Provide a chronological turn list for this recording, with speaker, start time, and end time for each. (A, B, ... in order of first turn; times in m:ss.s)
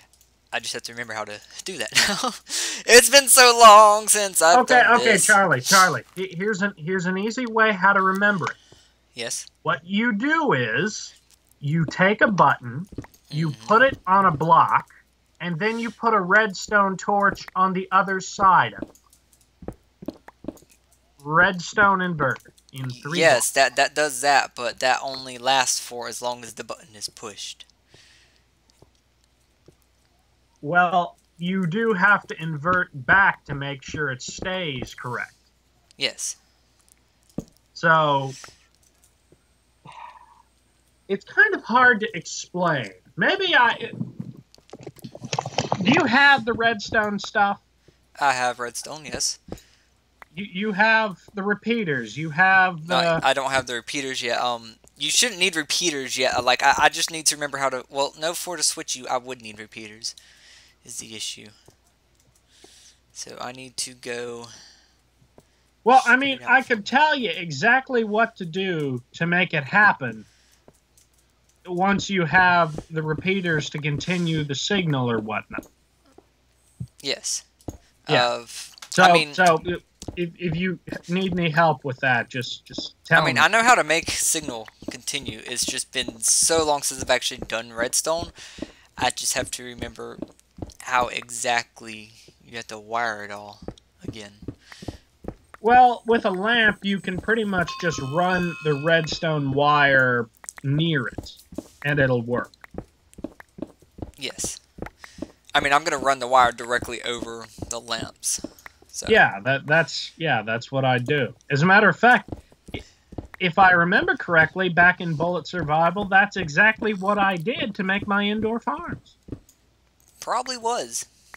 0:00.5-0:05.4 A
0:04.5-0:08.6 B
0:09.1-0:09.5 A
0:09.6-0:18.8 B
0:13.3-0:13.8 A
0:21.2-0:23.4 B
0:22.9-0:27.6 A
0:30.6-0:35.4 B
0:36.0-0:36.4 A
0:37.7-0:38.4 B
0:41.1-0:43.9 B
0:45.8-0:47.6 B
0:48.2-0:49.4 A
0:50.3-0:53.2 B
0:52.8-1:00.1 A
1:00.8-1:01.5 A
1:03.1-1:04.5 A
1:05.8-1:10.2 B
1:06.0-1:06.6 A
1:11.6-1:15.6 B
1:17.0-1:17.4 A
1:18.0-1:19.4 A
1:18.9-1:23.4 B
1:23.1-1:28.3 A
1:29.0-1:30.2 A
1:30.8-1:34.4 A
1:35.6-1:42.6 B
1:44.2-1:44.6 A
1:45.5-1:49.2 A
1:49.1-1:52.8 B
1:53.4-1:59.1 B
2:00.2-2:01.1 A